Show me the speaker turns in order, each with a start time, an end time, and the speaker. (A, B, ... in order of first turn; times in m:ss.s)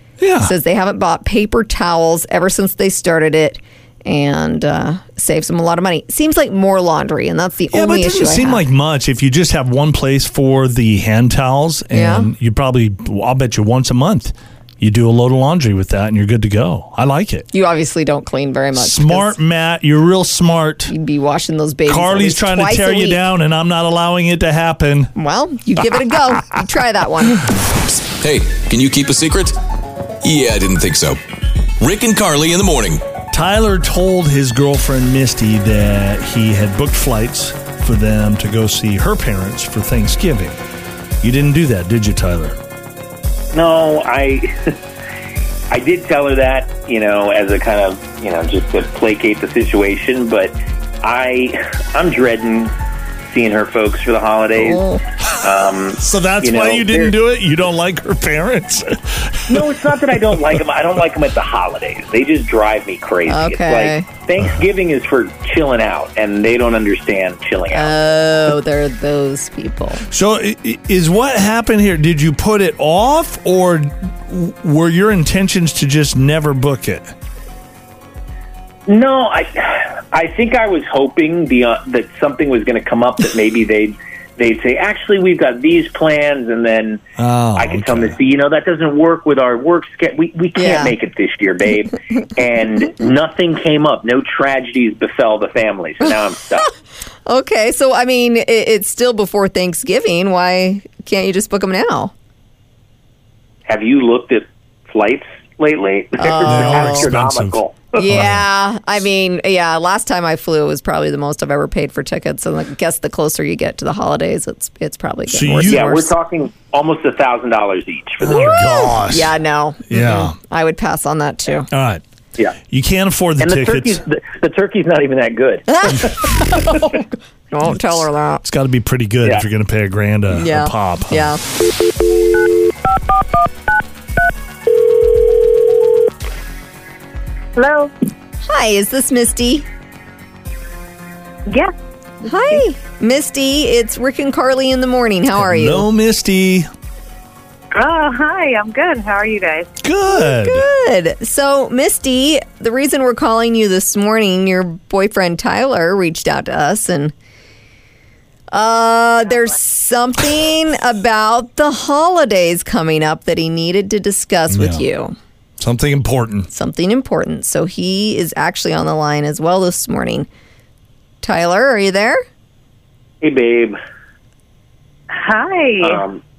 0:00.2-0:00.5 A
0:00.4-0:08.6 B
0:07.7-0:17.5 A
0:11.9-0:12.3 B
0:17.5-0:19.4 B
0:18.8-0:20.9 A
0:20.9-0:23.2 B
0:21.9-0:25.1 A
0:25.2-0:27.5 B
0:27.9-0:29.6 C
0:30.2-0:31.2 C
0:31.8-0:33.0 C
0:33.3-0:40.6 A
0:41.2-0:42.6 A
0:43.5-0:44.8 D
0:45.7-0:52.7 D
0:53.3-0:57.1 D
0:54.6-0:55.0 B
0:56.0-1:00.4 A
0:59.5-1:08.0 D
1:03.3-1:04.1 B
1:07.7-1:10.0 B
1:10.1-1:17.1 A
1:18.9-1:27.0 D
1:27.2-1:28.2 A
1:27.6-1:36.7 D
1:30.6-1:30.9 B
1:37.3-1:42.1 B
1:43.7-1:48.0 D
1:46.2-1:47.1 B
1:46.4-1:48.5 A
1:48.0-1:56.1 B
1:55.3-1:55.9 A
1:55.7-1:58.8 D
1:58.2-1:59.3 A
1:59.0-2:01.7 B
1:59.9-2:00.4 A
2:01.7-2:02.0 A
2:02.7-2:04.0 A
2:03.4-2:06.1 D
2:05.7-2:08.4 B
2:07.6-2:11.4 A
2:10.3-2:11.4 B
2:17.6-2:17.9 E
2:18.4-2:19.7 B
2:21.5-2:21.7 E
2:22.2-2:22.6 E
2:22.2-2:25.9 B
2:25.4-2:26.7 A
2:27.7-2:29.7 E
2:29.8-2:30.6 A
2:30.1-2:37.1 B
2:38.5-2:45.2 B
2:44.5-2:44.8 A
2:45.6-2:46.5 A
2:46.5-2:50.3 B
2:51.2-2:52.2 B
2:53.2-2:53.8 D
2:55.1-2:56.0 E
2:55.8-2:56.2 D